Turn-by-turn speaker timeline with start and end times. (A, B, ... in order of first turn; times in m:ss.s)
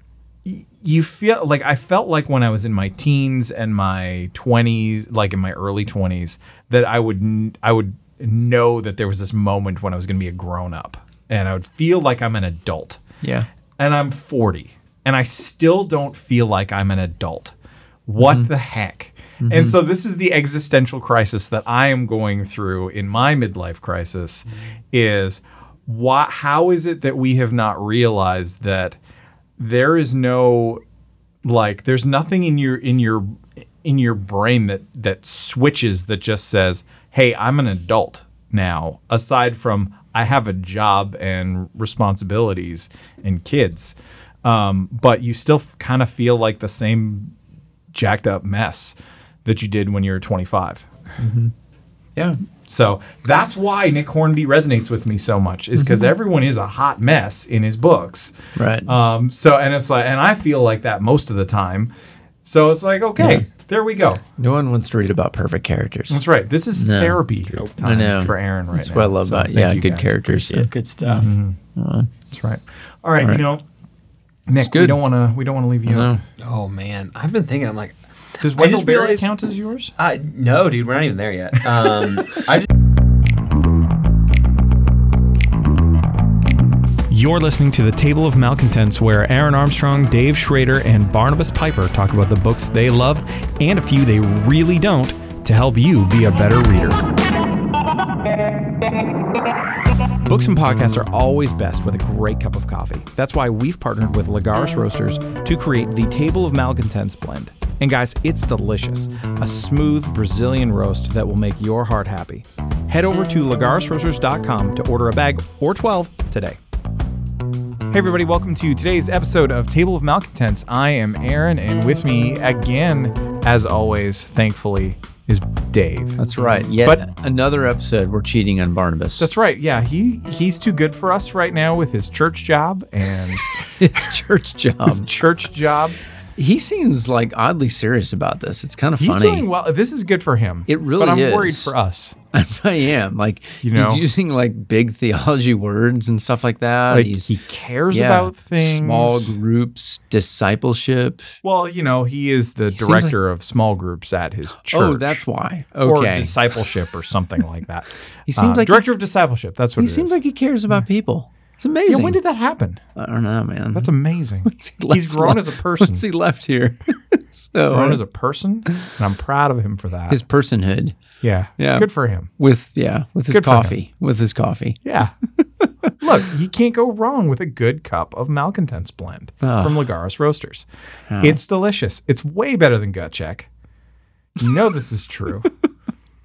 0:00.4-0:13.0 A
0:13.2-0:13.5 B
0:13.8-0:17.5 A
0:18.1-0:29.0 A
0:18.2-0:18.5 B
0:19.4-0:19.8 B
0:29.6-0:30.8 A
0:31.4-0:47.3 A
0:47.9-0:50.9 A
0:51.2-0:51.5 B
0:52.7-0:58.3 A
0:55.8-0:56.1 B
0:58.6-0:58.9 B
0:58.8-1:01.9 A
1:02.4-1:04.2 A
1:03.2-1:03.4 B
1:04.4-1:07.2 B
1:06.1-1:11.6 A
1:07.8-1:12.1 B
1:10.7-1:11.3 C
1:12.3-1:13.6 A
1:14.5-1:16.1 A
1:14.6-1:15.0 B
1:15.9-1:16.2 B
1:16.4-1:19.3 C
1:18.4-1:19.9 A
1:20.0-1:22.7 C
1:27.1-1:37.1 A
1:40.2-1:56.6 A
1:57.9-2:06.2 A
2:06.2-2:09.3 B
2:09.2-2:13.5 A
2:13.8-2:15.0 B
2:14.8-2:16.0 A
2:16.4-2:19.4 B
2:19.0-2:22.2 A
2:20.7-2:21.7 B
2:22.3-2:27.3 B
2:23.6-2:24.0 A
2:26.9-2:29.4 A
2:27.9-2:31.3 B
2:31.4-2:35.2 A
2:32.8-2:33.2 B
2:34.7-2:36.3 B
2:35.8-2:40.2 A
2:38.3-2:38.9 B
2:39.8-2:42.2 B
2:41.9-2:42.8 A
2:43.0-2:43.9 B
2:43.8-2:46.0 A
2:44.5-2:48.0 B
2:47.6-2:50.2 A
2:50.1-2:51.0 B
2:51.2-2:52.3 A
2:51.6-2:54.8 B
2:53.3-2:53.8 A
2:54.8-2:55.2 A
2:56.0-3:00.7 A
2:59.4-2:59.8 B
3:01.1-3:01.4 B
3:01.2-3:03.5 A
3:04.4-3:05.5 A